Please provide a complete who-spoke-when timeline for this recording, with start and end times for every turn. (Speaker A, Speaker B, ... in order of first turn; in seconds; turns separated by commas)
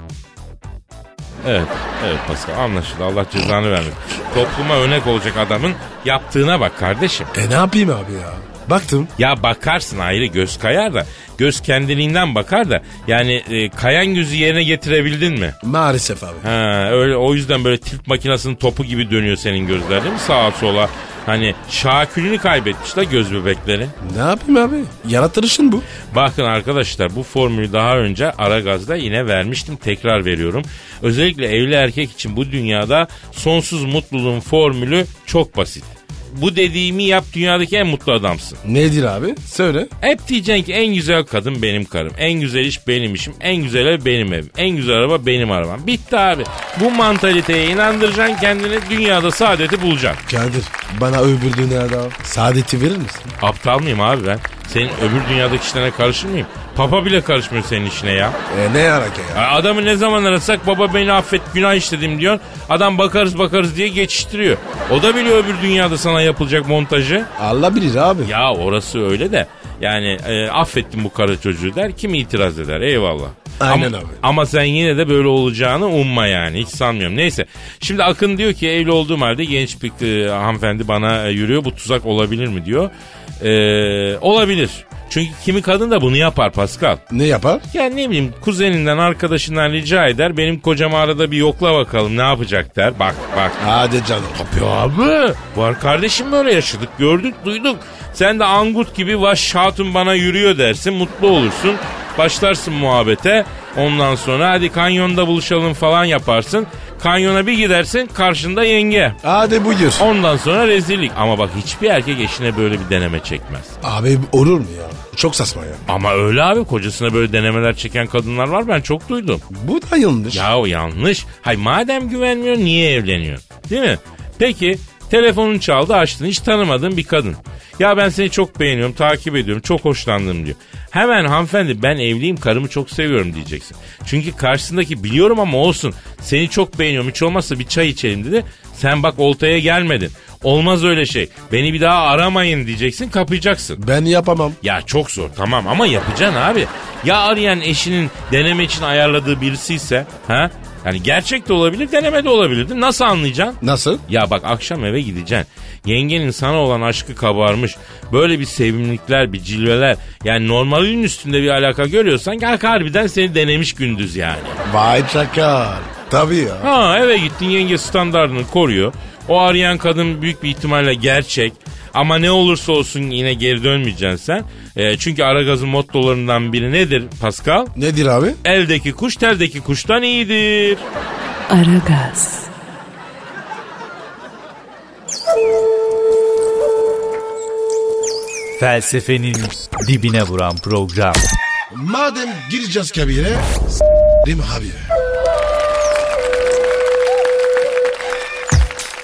Speaker A: 1.4-7.3, Speaker B: 7.3-9.1, Speaker A: 9.2-15.6, Speaker B: 15.6-16.5, Speaker A: 16.4-23.9, Speaker B: 24.0-25.9, Speaker A: 26.1-38.6, Speaker B: 38.6-39.9, Speaker A: 40.0-50.2, Speaker B: 50.3-53.3, Speaker A: 53.4-58.4, Speaker B: 58.5-59.5, Speaker A: 59.3-67.3, Speaker B: 67.4-68.3, Speaker A: 68.2-87.0, Speaker B: 73.6-74.2, Speaker B: 87.1-87.6, Speaker A: 87.7-93.6, Speaker B: 93.6-94.4, Speaker A: 94.3-109.2, Speaker B: 109.2-110.1, Speaker A: 110.0-113.8, Speaker B: 113.8-115.9, Speaker A: 115.9-119.4, Speaker B: 119.5-120.5, Speaker A: 120.3-143.8, Speaker B: 143.8-144.6, Speaker A: 144.6-164.6, Speaker B: 153.6-154.0, Speaker B: 164.6-166.7, Speaker A: 166.6-177.7, Speaker B: 177.8-178.4, Speaker A: 178.4-180.9, Speaker C: 181.5-182.5, Speaker C: 188.6-191.2, Speaker B: 191.7-193.6, Speaker B: 194.2-194.9